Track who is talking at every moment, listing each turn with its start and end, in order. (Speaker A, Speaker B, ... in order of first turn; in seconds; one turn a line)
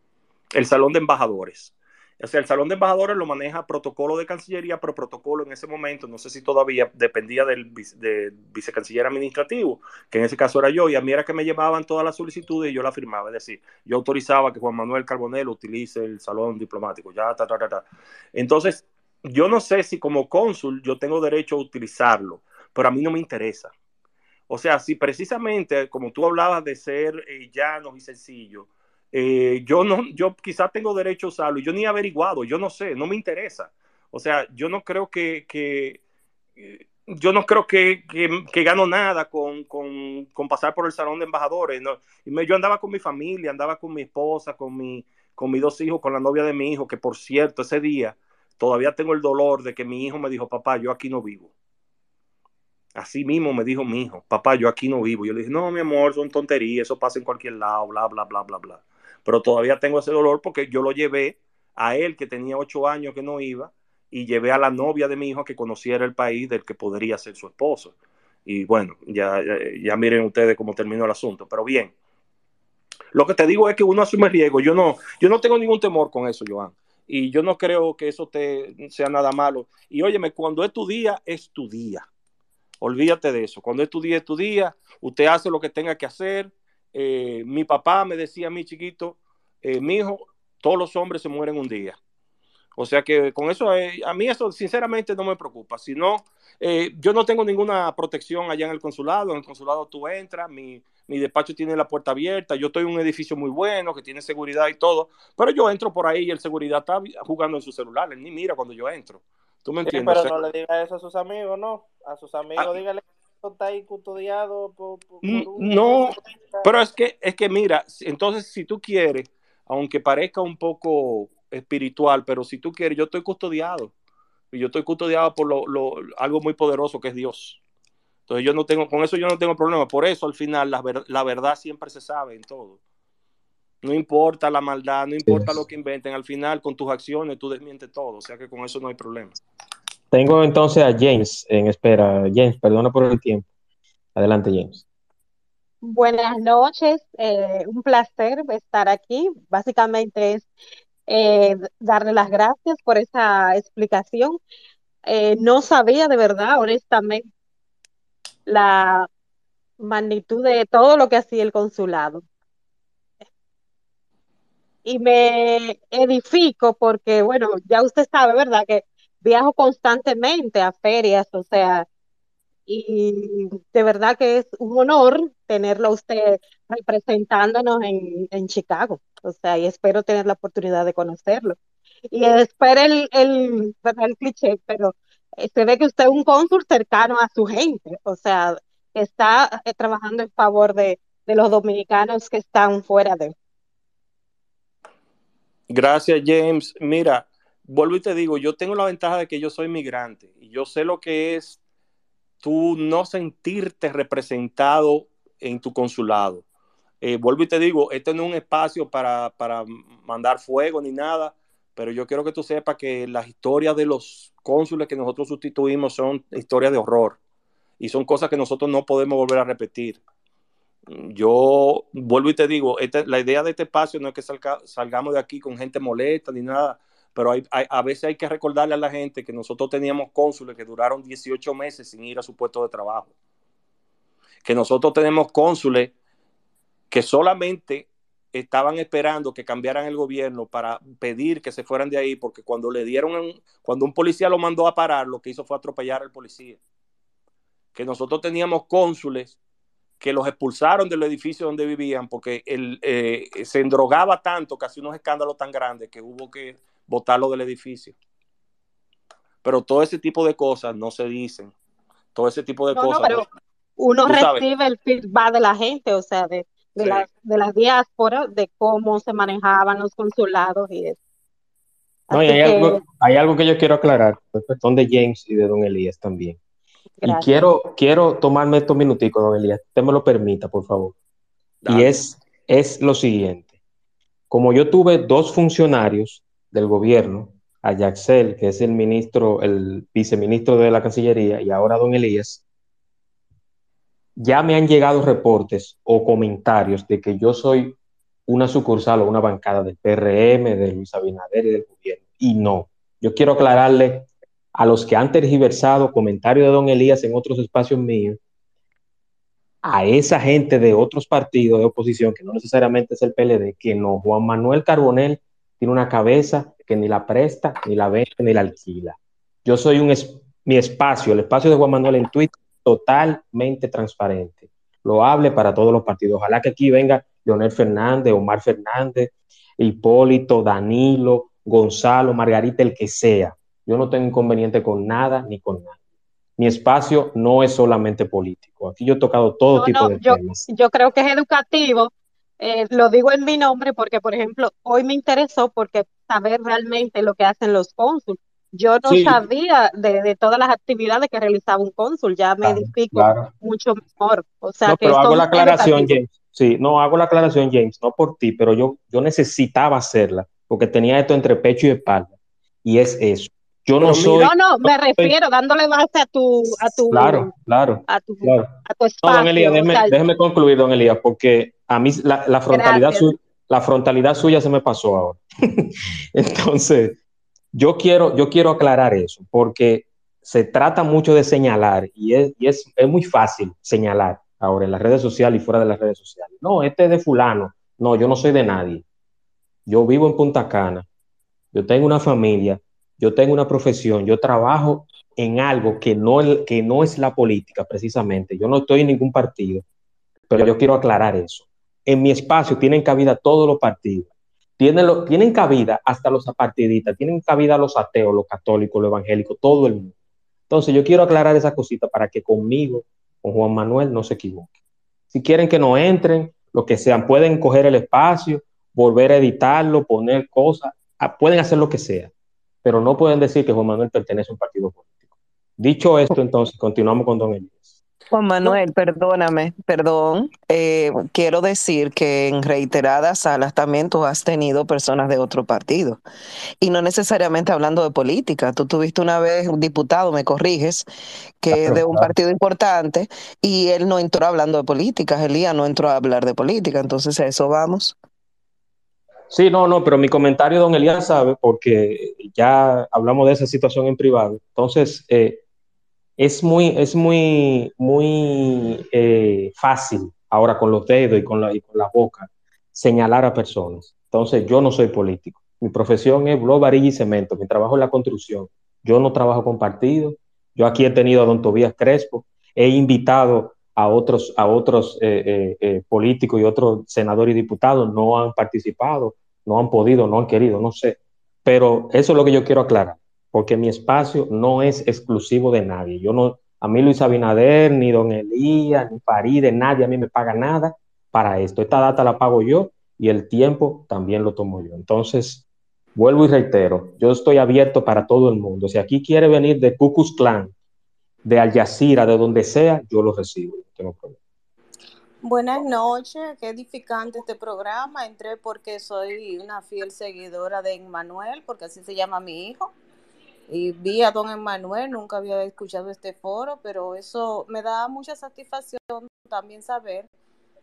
Speaker A: 0.5-23.7
Speaker A: 24.5-36.0
Speaker A: 36.6-51.5
Speaker A: 53.0-67.9
Speaker A: 68.5-72.0
Speaker A: 73.1-82.1
Speaker A: 82.8-92.0
Speaker A: 92.8-110.3
Speaker B: 109.8-116.7
Speaker A: 115.2-123.9
Speaker A: 124.5-127.6
Speaker A: 128.3-132.8
Speaker A: 133.8-139.4
Speaker C: 135.2-135.6
Speaker C: 140.1-143.5
Speaker C: 144.2-144.8
Speaker D: 145.8-150.5
Speaker D: 151.1-154.4
Speaker D: 155.1-157.2
Speaker D: 158.5-159.1
Speaker D: 159.8-162.2
Speaker D: 164.8-171.9
Speaker D: 172.7-181.6
Speaker D: 182.1-193.3
Speaker A: 195.7-201.6
Speaker A: 202.4-206.4
Speaker A: 207.0-217.2
Speaker A: 217.8-220.0
Speaker A: 220.9-233.1
Speaker A: 234.4-235.9
Speaker A: 236.9-246.6
Speaker A: 247.7-249.4
Speaker A: 250.0-258.0
Speaker A: 259.4-261.5
Speaker A: 262.1-263.2
Speaker D: 262.7-263.3
Speaker D: 263.8-271.0
Speaker A: 264.1-264.4
Speaker A: 266.8-267.1
Speaker D: 272.1-272.8
Speaker C: 272.1-276.4
Speaker D: 277.0-277.3
Speaker C: 277.0-280.9
Speaker A: 281.6-281.9
Speaker C: 281.7-283.5
Speaker C: 284.3-292.4
Speaker C: 294.2-308.2
Speaker C: 309.6-335.8
Speaker C: 336.4-340.4
Speaker D: 339.6-356.0
Speaker C: 348.9-349.2
Speaker C: 352.4-353.3
Speaker C: 354.7-362.1
Speaker C: 362.6-365.1
Speaker D: 363.8-367.3
Speaker A: 363.9-364.1
Speaker C: 366.9-377.0
Speaker D: 367.9-370.0
Speaker D: 372.5-373.1
Speaker C: 377.5-388.9
Speaker C: 389.7-390.9
Speaker C: 391.5-399.6
Speaker C: 400.3-409.9
Speaker C: 410.5-414.5
Speaker C: 415.1-422.1
Speaker C: 422.6-424.9
Speaker C: 425.6-427.7
Speaker E: 428.1-436.0
Speaker E: 436.6-440.9
Speaker E: 441.4-447.9
Speaker C: 441.5-442.1
Speaker C: 449.3-455.4
Speaker C: 456.2-500.5
Speaker C: 501.2-504.2
Speaker F: 505.2-512.7
Speaker F: 513.5-520.1